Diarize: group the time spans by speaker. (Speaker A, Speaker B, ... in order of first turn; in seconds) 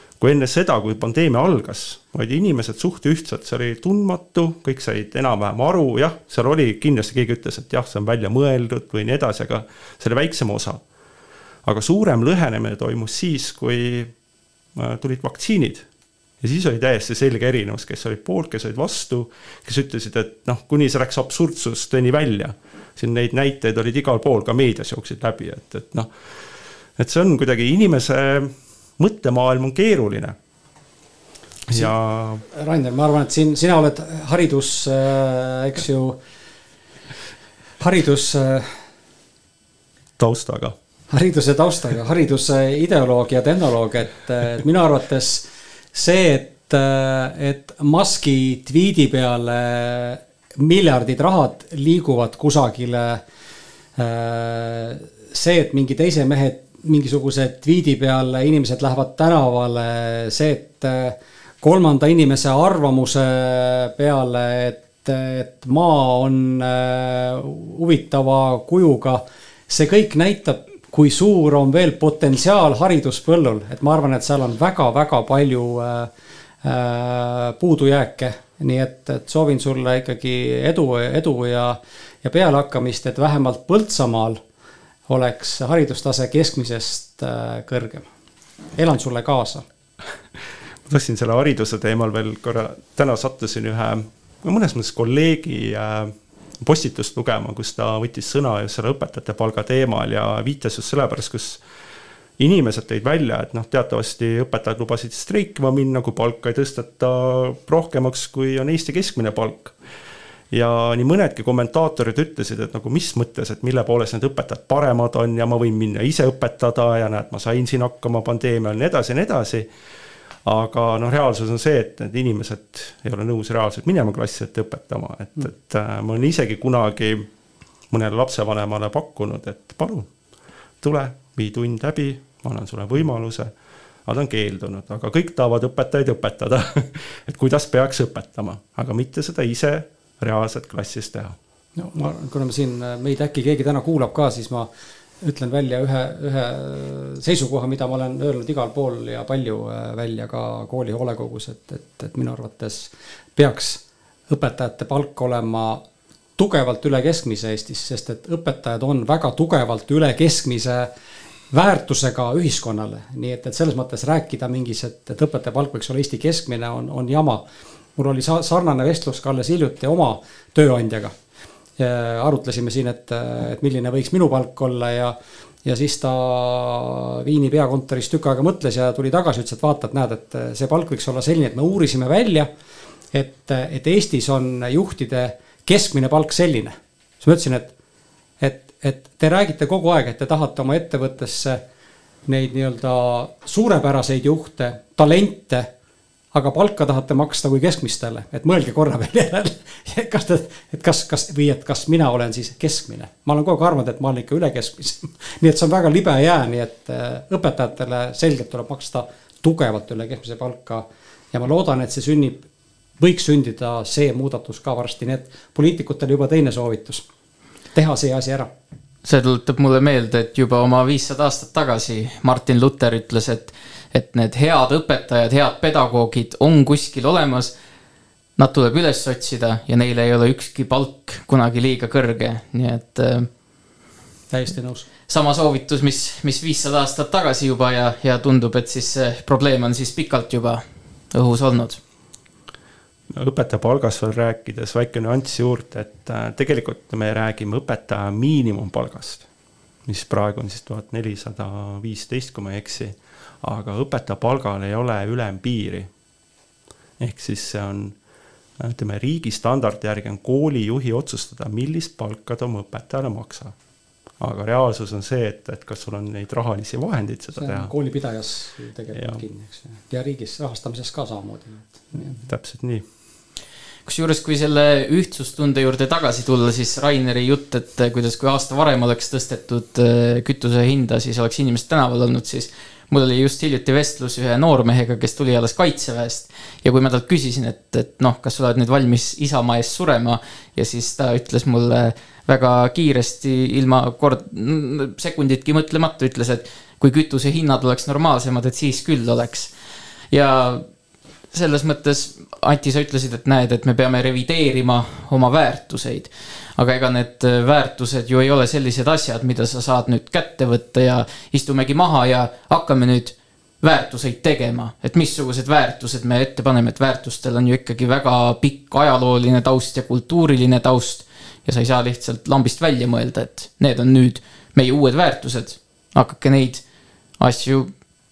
Speaker A: 0.2-10.8, 11.6-14.1, 14.8-15.8, 16.4-26.1, 27.0-30.4, 31.7-32.4, 40.2-40.7, 90.9-101.6, 102.4-109.7, 110.5-119.7, 120.4-127.3, 127.9-130.1, 130.8-133.5, 134.1-141.4, 243.1-249.2, 249.8-255.9, 257.0-257.9, 258.6-263.5, 264.2-267.7, 268.9-269.2, 272.2-272.8
Speaker B: 32.5-36.2, 37.8-38.7, 41.1-53.2, 54.0-76.1, 76.6-84.4, 85.1-88.1, 88.8-89.6, 141.8-144.7, 145.2-155.8, 156.4-160.9, 161.5-167.4, 168.0-171.1, 171.8-182.5, 183.1-187.7, 188.4-191.6, 192.3-195.7, 196.3-212.4, 213.0-217.0, 217.7-218.5, 234.3-234.8, 267.4-272.2
Speaker C: 219.0-227.5, 228.4-233.3, 235.1-241.8, 273.9-299.5, 300.1-300.6, 301.3-326.6, 327.2-327.7